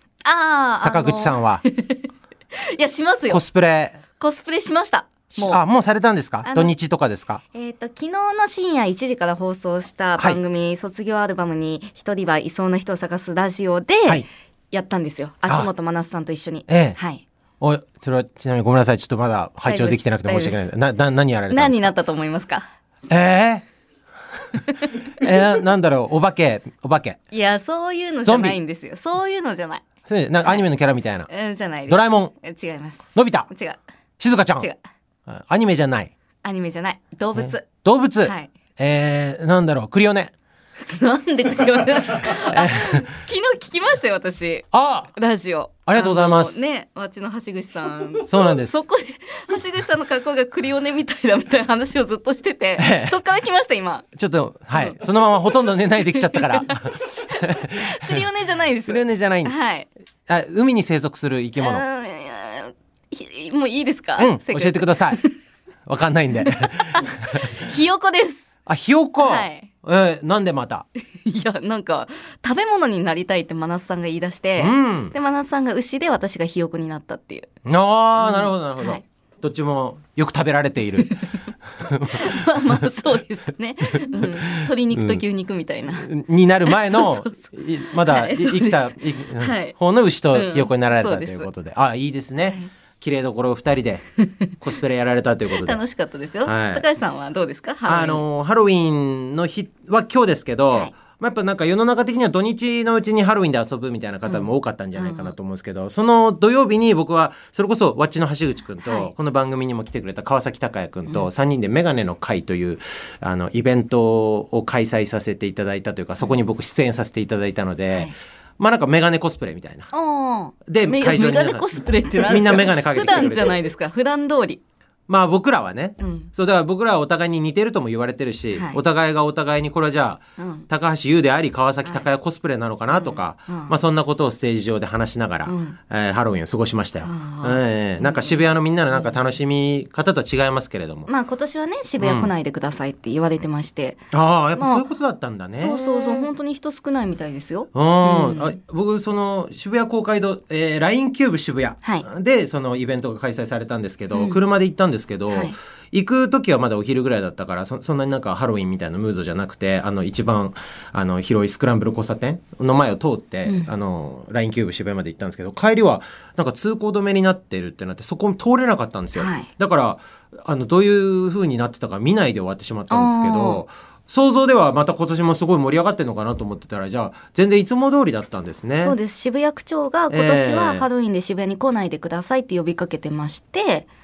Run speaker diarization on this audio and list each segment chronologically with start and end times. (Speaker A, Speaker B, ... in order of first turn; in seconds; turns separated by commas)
Speaker A: 0.2-3.4, Speaker B: 0.8-1.6, Speaker B: 3.3-4.0, Speaker A: 4.2-5.6, Speaker B: 5.3-7.4, Speaker A: 6.4-6.7, Speaker A: 7.5-17.2, Speaker B: 16.7-17.0, Speaker B: 17.6-21.9, Speaker A: 19.6-20.7, Speaker A: 21.5-22.6, Speaker B: 23.1-23.6, Speaker B: 25.1-27.2, Speaker A: 27.3-29.8, Speaker B: 28.2-28.6, Speaker B: 30.1-31.3, Speaker A: 31.3-33.8, Speaker B: 31.9-32.3, Speaker B: 33.1-33.5, Speaker B: 34.2-34.7, Speaker B: 35.3-36.1, Speaker A: 36.4-37.7, Speaker B: 37.3-40.3, Speaker A: 38.2-38.5, Speaker A: 40.8-54.0, Speaker B: 42.5-43.0, Speaker B: 44.7-45.1, Speaker B: 45.9-46.6, Speaker B: 48.2-48.8, Speaker B: 52.8-53.1, Speaker B: 54.1-58.2, Speaker A: 54.7-55.0, Speaker A: 56.1-59.9, Speaker B: 58.9-59.5, Speaker B: 60.3-61.8, Speaker A: 61.6-65.3, Speaker B: 64.2-65.2, Speaker B: 65.9-67.6, Speaker A: 66.4-68.5, Speaker B: 68.7-70.9, Speaker A: 69.2-69.7, Speaker A: 71.2-77.5, Speaker B: 74.6-75.1, Speaker B: 77.6-81.2, Speaker A: 78.2-79.0, Speaker B: 81.7-82.8, Speaker A: 82.1-86.1, Speaker B: 84.2-85.2, Speaker B: 85.9-94.0, Speaker A: 86.7-87.4, Speaker A: 87.9-89.8, Speaker A: 90.3-91.5, Speaker B: 94.6-95.8, Speaker A: 95.5-98.2, Speaker B: 96.4-96.8, Speaker B: 97.8-119.9, Speaker A: 104.2-105.3, Speaker A: 108.8-109.1, Speaker A: 119.9-124.6, Speaker B: 120.7-123.6, Speaker B: 125.1-141.1, Speaker A: 126.0-126.3, Speaker A: 128.5-128.8, Speaker A: 130.4-130.7, Speaker A: 132.9-133.7, Speaker A: 135.4-135.8, Speaker A: 137.0-139.2, Speaker A: 141.1-144.0, Speaker B: 142.0-142.3, Speaker B: 144.1-146.3, Speaker A: 144.5-144.8, Speaker A: 145.5-148.6, Speaker B: 147.7-178.9, Speaker A: 154.1-154.4, Speaker A: 155.3-155.6, Speaker A: 163.4-163.7, Speaker A: 169.1-169.5, Speaker A: 172.9-173.6, Speaker A: 178.8-183.9, Speaker B: 180.1-180.9